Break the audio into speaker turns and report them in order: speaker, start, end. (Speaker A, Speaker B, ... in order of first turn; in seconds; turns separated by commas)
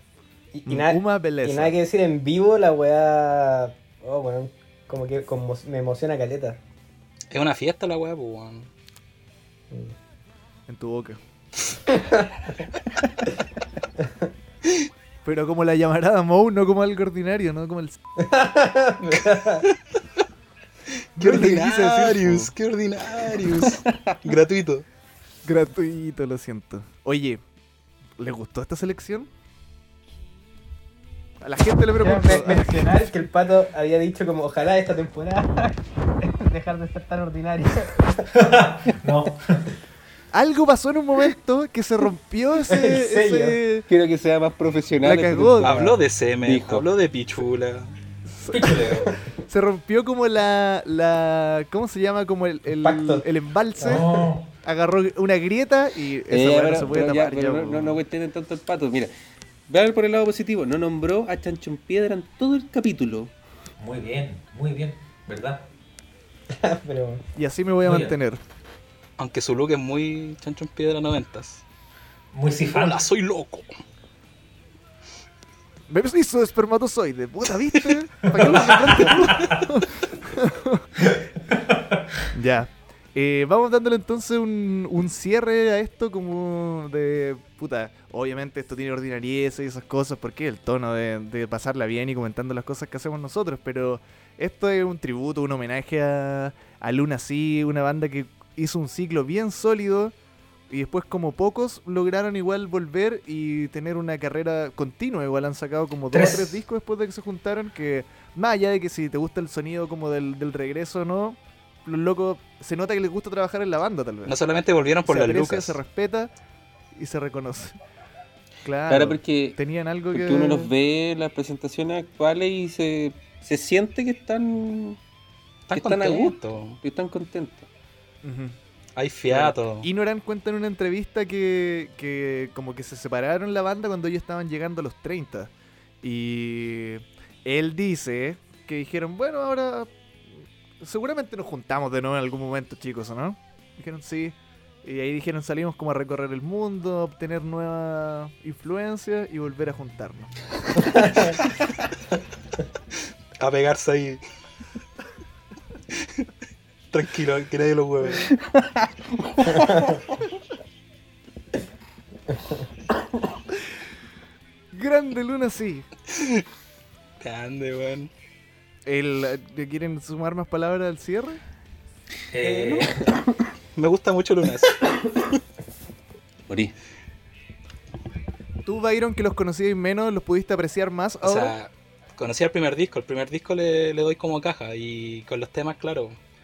Speaker A: 0.5-6.6, Speaker B: 0.7-1.8, Speaker C: 7.3-8.7, Speaker B: 10.7-11.2, Speaker A: 11.9-12.2, Speaker B: 15.2-18.0, Speaker A: 18.2-19.6, Speaker B: 21.1-22.5, Speaker C: 21.2-24.9, Speaker B: 25.4-27.4, Speaker B: 28.2-29.3, Speaker B: 31.4-33.1, Speaker A: 32.0-38.3, Speaker D: 38.3-39.6, Speaker B: 40.3-43.9, Speaker A: 42.7-43.6, Speaker E: 43.9-46.9, Speaker B: 45.0-45.9, Speaker C: 45.6-47.9, Speaker B: 48.3-58.0, Speaker D: 48.5-49.3, Speaker A: 52.7-53.2, Speaker A: 53.8-54.0, Speaker D: 53.8-54.5, Speaker E: 56.3-59.1, Speaker E: 59.7-63.3, Speaker D: 63.8-65.6, Speaker A: 66.5-67.2, Speaker B: 67.3-68.4, Speaker D: 67.8-68.1, Speaker C: 69.2-71.6, Speaker D: 72.3-73.0, Speaker C: 72.7-73.7, Speaker B: 75.9-80.9, Speaker D: 78.3-79.6, Speaker C: 78.4-79.4, Speaker D: 81.0-82.2, Speaker B: 82.3-100.1, Speaker B: 100.7-114.4, Speaker D: 106.1-106.5, Speaker C: 114.3-115.8, Speaker B: 115.0-116.3, Speaker B: 116.9-117.8, Speaker B: 118.6-120.7, Speaker E: 118.9-119.6, Speaker E: 120.1-125.0, Speaker C: 125.7-126.8, Speaker E: 125.7-127.7, Speaker B: 128.2-128.6, Speaker C: 128.9-129.9, Speaker B: 129.3-135.5, Speaker B: 136.0-150.3, Speaker A: 150.9-151.1, Speaker C: 153.4-154.2, Speaker C: 156.0-156.3, Speaker C: 156.9-158.3, Speaker E: 159.3-159.7, Speaker B: 164.7-165.9, Speaker C: 166.1-166.4, Speaker C: 167.2-168.1, Speaker B: 168.8-171.4, Speaker D: 172.3-173.1, Speaker E: 172.5-173.3, Speaker C: 173.8-174.8, Speaker E: 176.5-176.7, Speaker B: 178.6-181.5, Speaker C: 181.2-186.2